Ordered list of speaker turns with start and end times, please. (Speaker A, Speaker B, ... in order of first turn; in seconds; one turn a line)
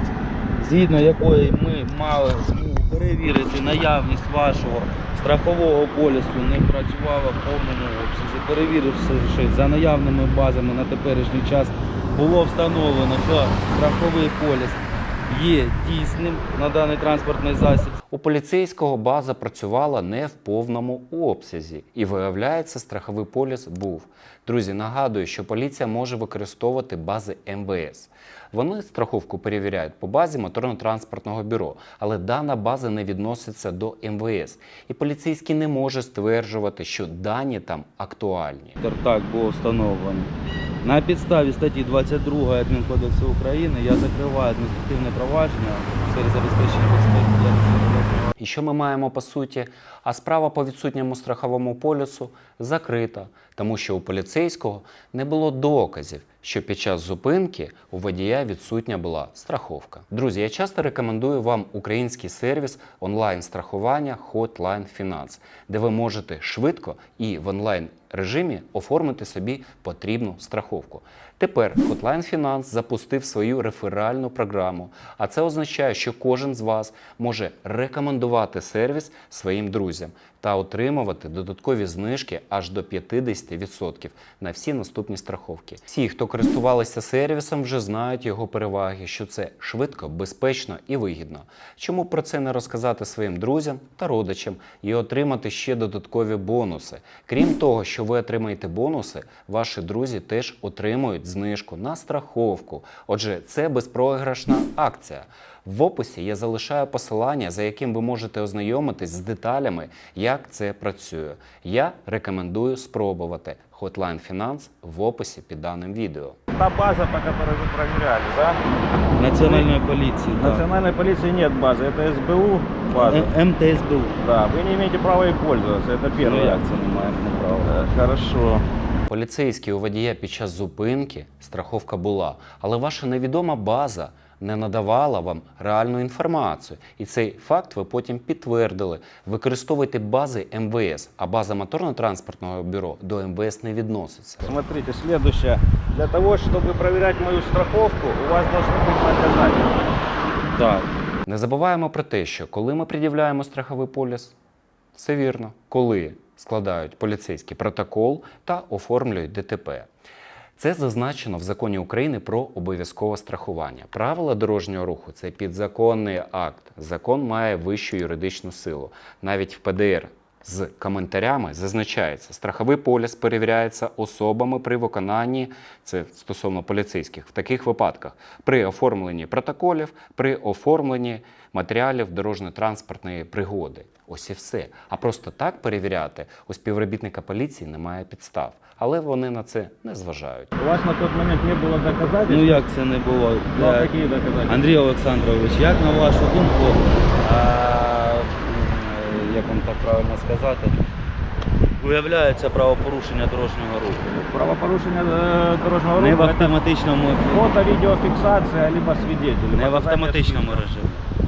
Speaker A: 0.6-18.0
Speaker B: 18.1-38.8
Speaker A: 38.8-40.3
Speaker A: 40.8-48.3
Speaker B: 48.4-116.4
Speaker C: 116.5-118.6
Speaker A: 119.1-120.6
Speaker C: 119.4-119.7
Speaker C: 120.3-123.3
Speaker A: 122.9-124.2
Speaker C: 124.2-126.6
Speaker A: 126.2-127.7
Speaker C: 127.6-128.6
Speaker B: 129.1-144.6
Speaker C: 144.4-149.9
Speaker A: 150.6-150.9
Speaker B: 151.2-154.3
Speaker B: 154.9-159.9
Speaker B: 160.6-190.5
Speaker C: 190.6-192.7
Speaker A: 192.2-193.9
Speaker C: 193.5-194.6
Speaker A: 194.5-200.8
Speaker A: 201.8-204.1
Speaker C: 204.1-206.5
Speaker A: 206.0-207.5
Speaker C: 207.3-210.6
Speaker A: 209.5-211.0